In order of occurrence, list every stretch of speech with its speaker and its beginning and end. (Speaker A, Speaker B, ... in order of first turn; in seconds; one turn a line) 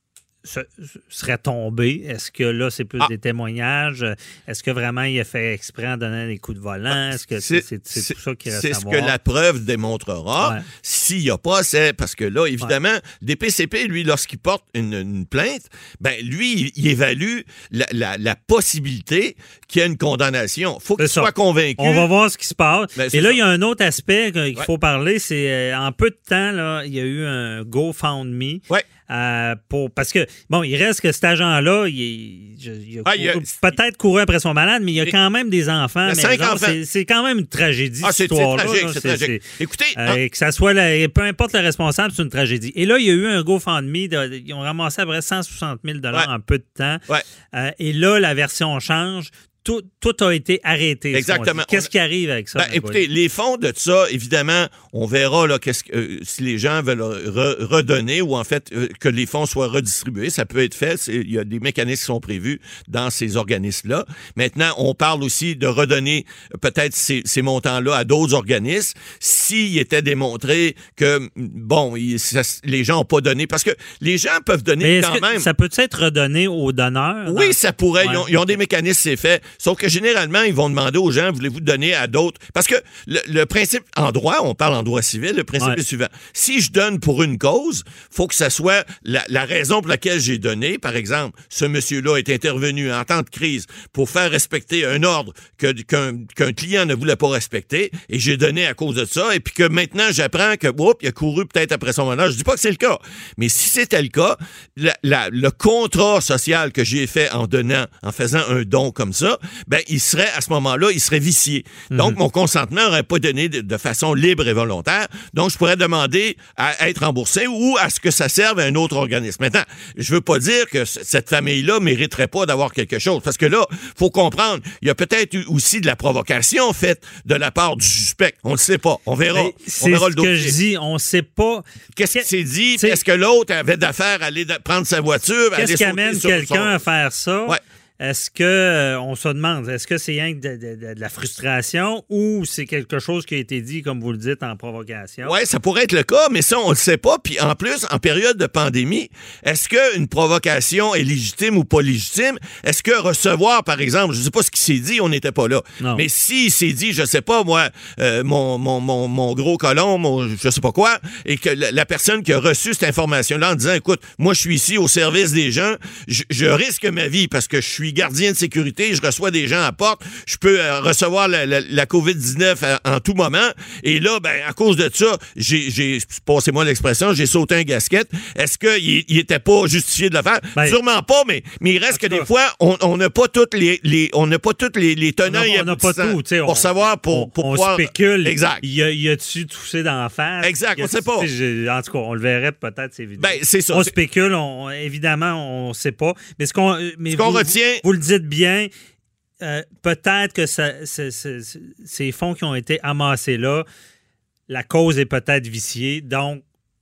Speaker A: 0.4-9.1
Speaker B: 6.9-22.1
Speaker A: 10.4-10.7
Speaker A: 21.0-39.4
Speaker B: 22.9-23.4
Speaker B: 33.0-33.6
Speaker B: 36.0-36.8
Speaker B: 38.0-40.2
Speaker A: 40.0-47.0
Speaker A: 47.5-53.0
Speaker B: 51.1-51.9
Speaker B: 52.5-75.5
Speaker A: 74.8-78.5
Speaker B: 77.2-130.5
Speaker A: 111.9-112.2
Speaker A: 129.3-133.0
Speaker B: 131.9-136.8
Speaker A: 135.6-145.3
Speaker B: 145.2-188.6
Speaker A: 181.9-182.3
Speaker A: 185.2-198.7
Speaker B: 190.4-191.3
Speaker B: 193.2-193.9
Speaker B: 197.1-197.8
Speaker A: 199.4-203.6
Speaker A: 204.5-206.4